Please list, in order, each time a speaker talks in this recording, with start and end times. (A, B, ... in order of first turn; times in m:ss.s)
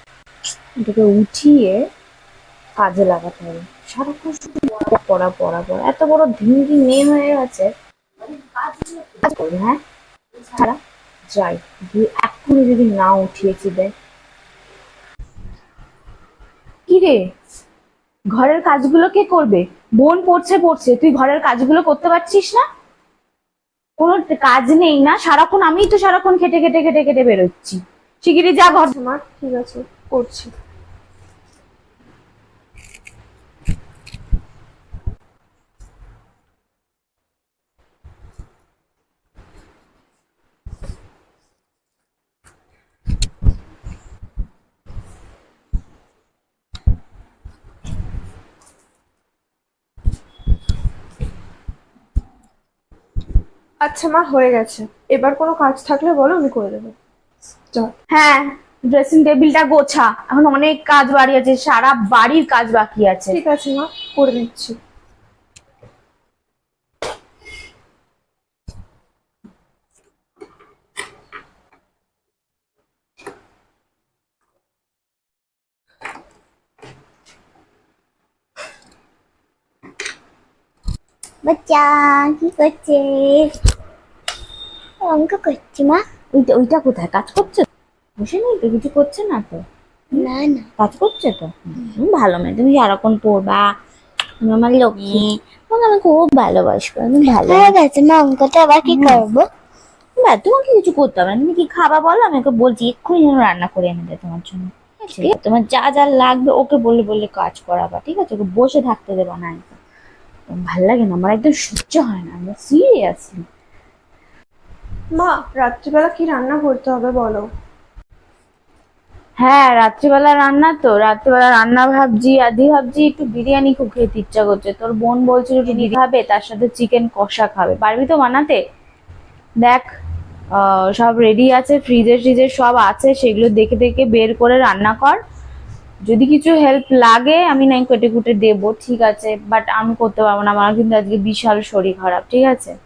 0:00.8-0:01.8 A
0:02.8-0:07.7 A
0:08.6-0:09.8 A
0:10.5-0:10.8 A
0:11.3-0:13.9 A
0:16.9-0:17.2 A
0:18.3-0:22.6 A
0:24.0-0:28.9 A
0:28.8-0:30.5 B
0:53.8-0:57.0 B
0:58.1-1:03.4 A
1:03.3-1:04.8 B
1:21.4-1:23.5 C
1:25.0-1:26.0 C
1:26.3-1:27.7 A
1:28.2-1:29.6 A
1:30.1-1:30.7 C
1:30.8-1:33.7 A
1:34.4-1:37.8 A
1:37.2-1:39.5 C
1:38.9-1:39.2 A
1:40.2-1:49.8 A
1:50.5-1:53.4 A
1:55.2-1:57.4 B
1:59.4-2:08.6 A
2:09.6-2:09.9 A
2:10.5-2:15.2 A
2:16.1-2:22.7 A